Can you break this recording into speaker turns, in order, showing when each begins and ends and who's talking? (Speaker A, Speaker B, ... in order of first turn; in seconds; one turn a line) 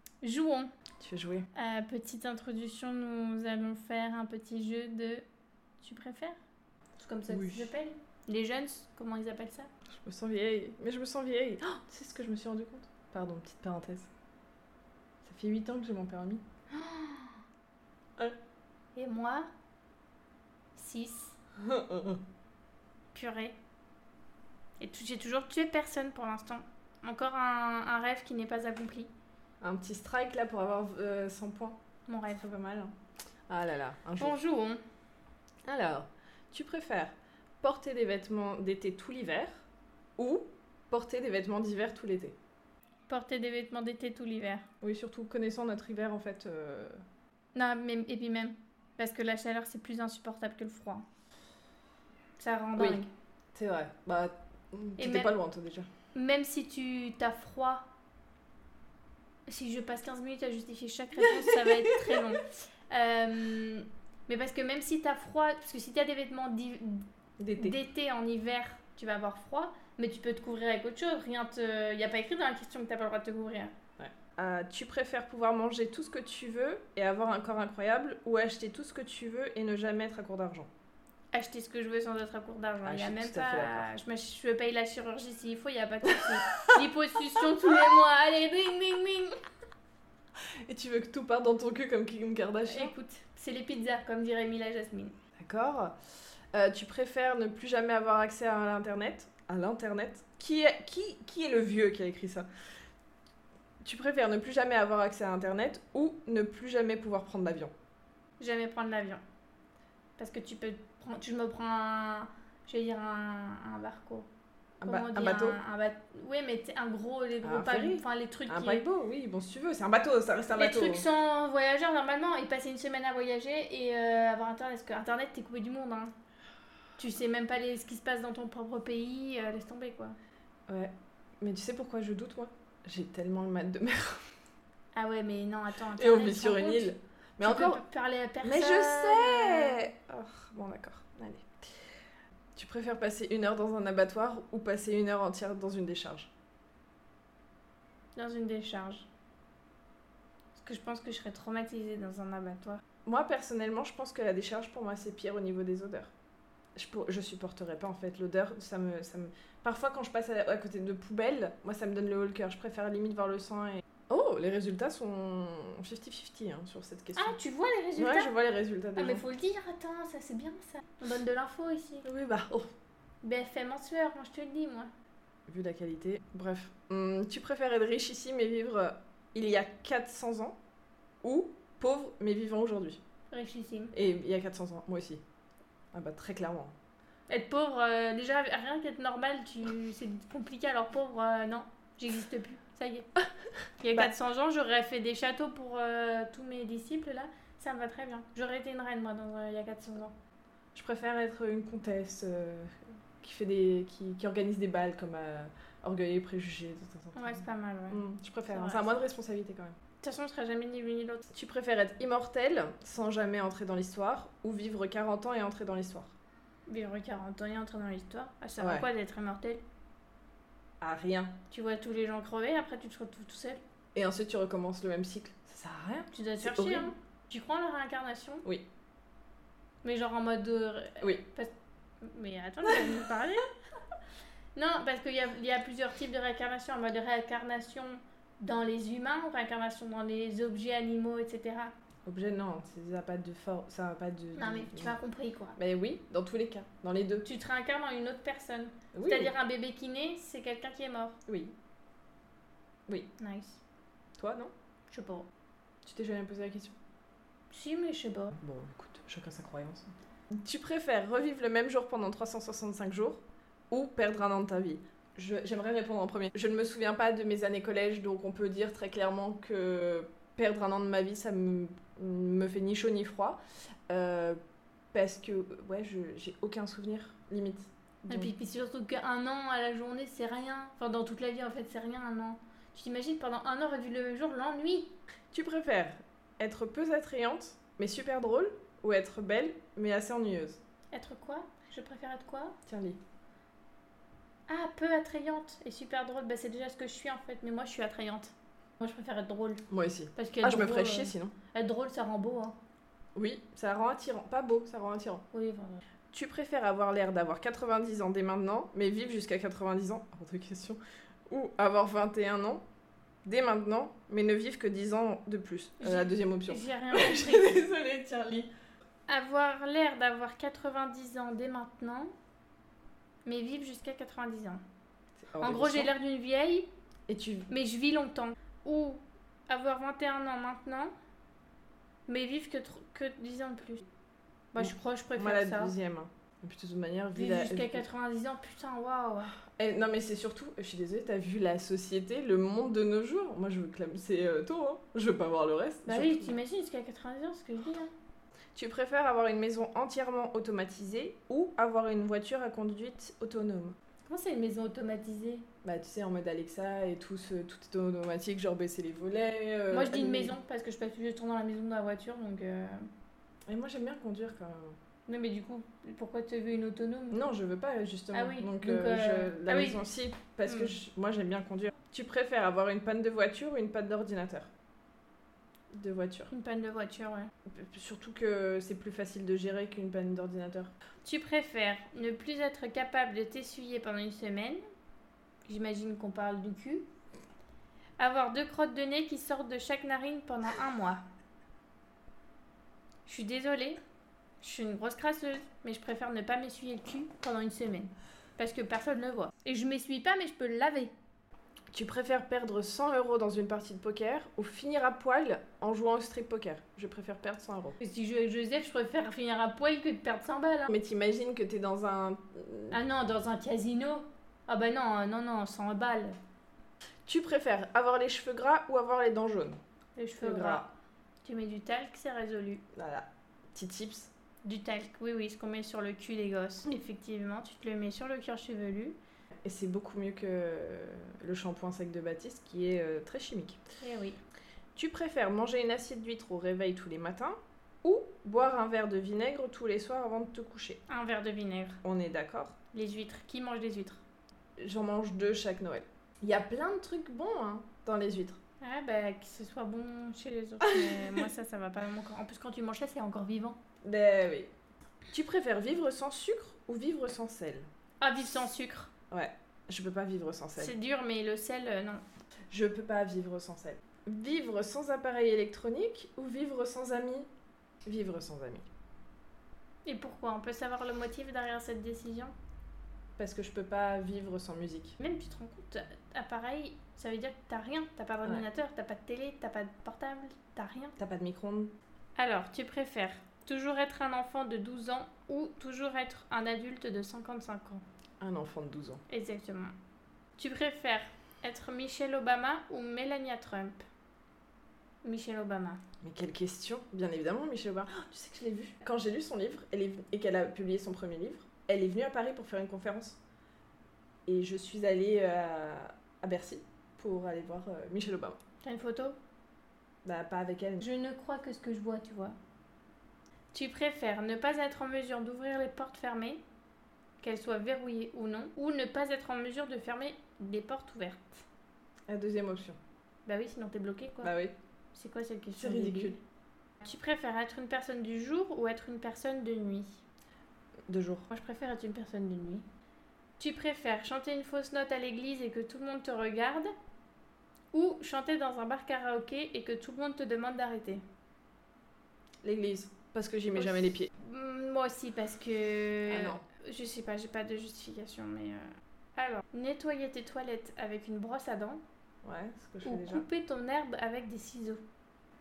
Speaker A: 0.2-0.7
Speaker B: 1.0-1.5
Speaker A: 1.5-5.2
Speaker A: 5.8-6.4
Speaker A: 7.0-9.7
Speaker B: 7.3-7.7
Speaker B: 9.9-14.1
Speaker B: 15.2-16.4
Speaker A: 16.7-17.4
Speaker A: 18.9-19.5
Speaker A: 20.8-21.4
Speaker B: 21.6-22.2
Speaker A: 23.1-23.6
Speaker A: 24.8-29.1
Speaker B: 29.6-31.8
Speaker A: 32.1-32.4
Speaker B: 32.3-32.9
Speaker B: 33.5-34.4
Speaker A: 34.2-34.8
Speaker B: 35.6-39.6
Speaker B: 40.2-42.4
Speaker A: 43.1-44.7
Speaker B: 44.8-47.0
Speaker A: 47.5-51.0
Speaker A: 52.4-53.1
Speaker B: 52.8-53.0
Speaker B: 53.5-55.9
Speaker A: 55.0-55.3
Speaker A: 56.1-57.9
Speaker A: 59.5-73.7
Speaker B: 61.2-62.3
Speaker B: 67.4-67.8
Speaker B: 74.0-80.7
Speaker A: 81.3-89.3
Speaker B: 82.8-83.9
Speaker B: 86.1-86.3
Speaker B: 90.7-92.9
Speaker A: 92.7-95.1
Speaker B: 95.4-96.0
Speaker B: 96.5-102.5
Speaker B: 103.8-107.7
Speaker A: 108.4-109.2
Speaker A: 110.2-114.3
Speaker B: 114.8-115.6
Speaker A: 114.8-118.8
Speaker B: 117.4-121.1
Speaker A: 120.5-126.1
Speaker A: 127.0-130.2
Speaker B: 130.7-134.2
Speaker A: 134.9-139.9
Speaker B: 135.9-137.8
Speaker B: 138.4-141.7
Speaker B: 142.5-146.3
Speaker A: 148.2-149.1
Speaker A: 150.6-152.8
Speaker B: 153.1-156.1
Speaker B: 156.8-167.3
Speaker A: 167.2-168.3
Speaker B: 168.0-169.2
Speaker A: 168.9-172.1
Speaker B: 172.0-172.7
Speaker A: 173.2-174.9
Speaker B: 175.5-180.6
Speaker B: 181.2-183.0
Speaker A: 183.3-183.9
Speaker B: 183.9-185.2
Speaker B: 185.9-186.7
Speaker A: 187.3-193.1
Speaker A: 193.8-200.1
Speaker B: 200.7-209.8
Speaker A: 207.1-208.9
Speaker A: 210.0-211.3
Speaker B: 211.3-216.1
Speaker A: 216.7-219.6
Speaker B: 218.6-218.9
Speaker B: 220.8-221.3
Speaker A: 221.5-223.6
Speaker B: 223.9-226.9
Speaker A: 226.1-228.4
Speaker A: 229.8-231.5
Speaker A: 232.0-233.5
Speaker A: 234.5-241.7
Speaker B: 242.1-244.9
Speaker A: 244.3-245.6
Speaker B: 245.6-247.2
Speaker A: 247.2-251.2
Speaker B: 248.9-249.3
Speaker B: 251.3-251.5
Speaker A: 253.2-253.6
Speaker B: 254.2-254.5
Speaker A: 254.9-255.3
Speaker B: 255.8-256.8
Speaker A: 257.5-258.4
Speaker B: 258.4-274.4
Speaker B: 274.9-278.3
Speaker A: 278.1-284.9
Speaker B: 285.3-290.6
Speaker A: 290.9-292.6
Speaker B: 292.7-293.0
Speaker A: 294.5-299.6
Speaker B: 299.7-301.3
Speaker A: 300.1-302.6
Speaker B: 303.1-305.2
Speaker A: 305.3-305.8
Speaker B: 306.1-312.6
Speaker B: 313.2-318.5
Speaker A: 315.8-317.6
Speaker A: 319.1-322.1
Speaker A: 323.2-324.6
Speaker B: 325.2-325.9
Speaker A: 325.4-326.7
Speaker B: 327.1-327.5
Speaker A: 327.5-330.9
Speaker A: 332.1-333.8
Speaker A: 334.5-335.7
Speaker B: 334.6-337.8
Speaker A: 337.1-339.3
Speaker B: 339.5-346.4
Speaker A: 345.9-347.9
Speaker B: 348.5-353.8
Speaker A: 354.1-355.4
Speaker B: 355.6-360.3
Speaker A: 359.7-362.9
Speaker B: 363.5-364.8
Speaker A: 365.1-367.2
Speaker B: 367.1-374.5
Speaker A: 368.1-369.8
Speaker A: 370.4-370.8
Speaker B: 375.7-376.3
Speaker A: 376.3-377.3
Speaker B: 377.5-380.7
Speaker A: 381.0-384.6
Speaker A: 385.5-386.9
Speaker A: 388.0-391.0
Speaker A: 393.1-393.8
Speaker A: 394.4-400.9
Speaker B: 401.7-407.8
Speaker A: 407.8-410.7
Speaker B: 410.7-412.8
Speaker A: 412.7-416.2
Speaker B: 417.1-419.6
Speaker A: 419.9-420.7
Speaker B: 420.2-420.7
Speaker A: 421.2-422.6
Speaker B: 422.7-424.1
Speaker A: 424.4-429.0
Speaker B: 429.4-433.6
Speaker A: 433.8-434.2
Speaker B: 434.8-440.8
Speaker A: 440.9-441.8
Speaker B: 441.8-442.5
Speaker A: 442.7-444.0
Speaker B: 444.6-448.4
Speaker A: 448.6-453.6
Speaker B: 450.6-451.3
Speaker B: 453.8-454.5
Speaker B: 455.1-457.7
Speaker A: 458.0-458.9
Speaker B: 459.1-460.7
Speaker A: 460.6-462.0
Speaker B: 462.5-467.3
Speaker B: 467.8-468.6
Speaker A: 469.9-472.3
Speaker B: 473.2-475.0
Speaker A: 475.0-480.9
Speaker B: 481.0-481.7
Speaker A: 482.2-487.8
Speaker B: 488.2-489.0
Speaker A: 489.1-489.7
Speaker A: 490.4-493.8
Speaker A: 495.0-495.8
Speaker B: 496.0-503.2
Speaker B: 504.3-508.4
Speaker A: 508.6-509.2
Speaker B: 510.0-510.8
Speaker A: 510.8-512.4
Speaker A: 513.5-516.4
Speaker A: 517.2-521.4
Speaker B: 522.1-522.8
Speaker A: 523.2-524.3
Speaker B: 524.2-524.5
Speaker A: 524.9-526.2
Speaker B: 525.6-526.2
Speaker A: 526.8-530.0
Speaker B: 530.9-531.3
Speaker A: 531.3-532.6
Speaker A: 533.4-536.7
Speaker A: 537.7-541.0
Speaker B: 542.4-544.1
Speaker A: 543.5-551.8
Speaker B: 546.1-546.4
Speaker B: 552.2-553.3
Speaker A: 552.8-554.8